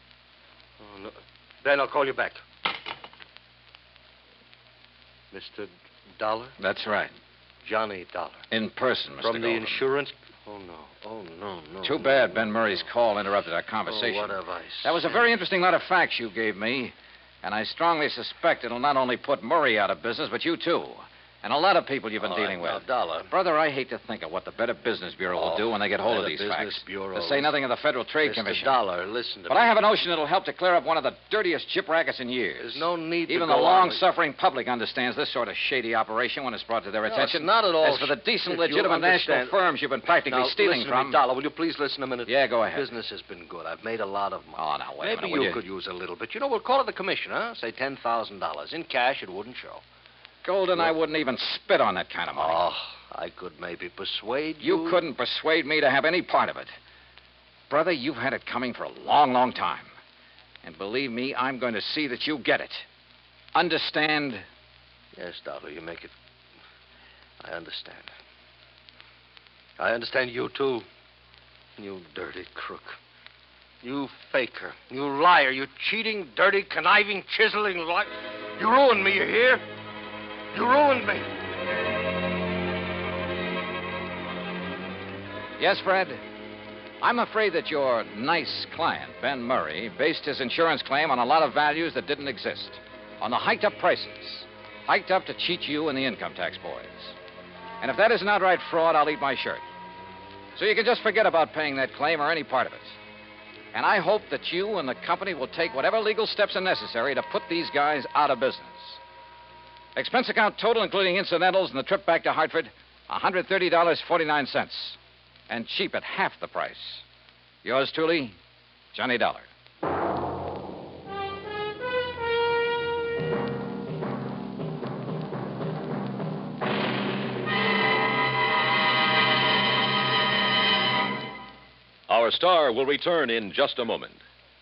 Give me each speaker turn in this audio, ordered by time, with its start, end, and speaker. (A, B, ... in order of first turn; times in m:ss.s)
0:00.8-0:02.4 A
0:05.3-0:06.6 A
0:06.6-0:07.1 B
0:07.6-0:08.5 A
0:08.5-0:09.8 B
0:09.2-0:12.9 A
0:11.8-0:28.8 B
0:13.9-0:15.3 A
0:22.2-0:23.3 A
0:25.4-0:27.6 A
0:28.2-0:29.8 A
0:29.5-0:41.2 B
0:32.6-0:34.0 A
0:37.0-0:49.8 A
0:42.3-0:42.9 B
0:44.6-0:45.6 B
0:50.4-0:52.6 B
0:52.3-0:55.1 A
0:54.6-0:56.7 B
0:57.7-1:00.0 B
1:00.6-1:02.9 B
1:03.6-1:04.5 B
1:05.2-1:06.2 A
1:07.4-1:08.1 A
1:09.8-1:10.9 A
1:11.8-1:13.0 A
1:13.8-1:19.6 A
1:20.5-1:21.3 A
1:25.6-1:26.2 B
1:27.0-1:37.2 B
1:37.8-1:39.6 B
1:40.6-1:43.0 B
1:43.7-1:49.0 B
1:50.0-1:55.0 B
1:55.5-1:57.0 B
1:57.6-1:58.4 B
1:58.9-1:59.5 B
2:12.1-2:14.2 C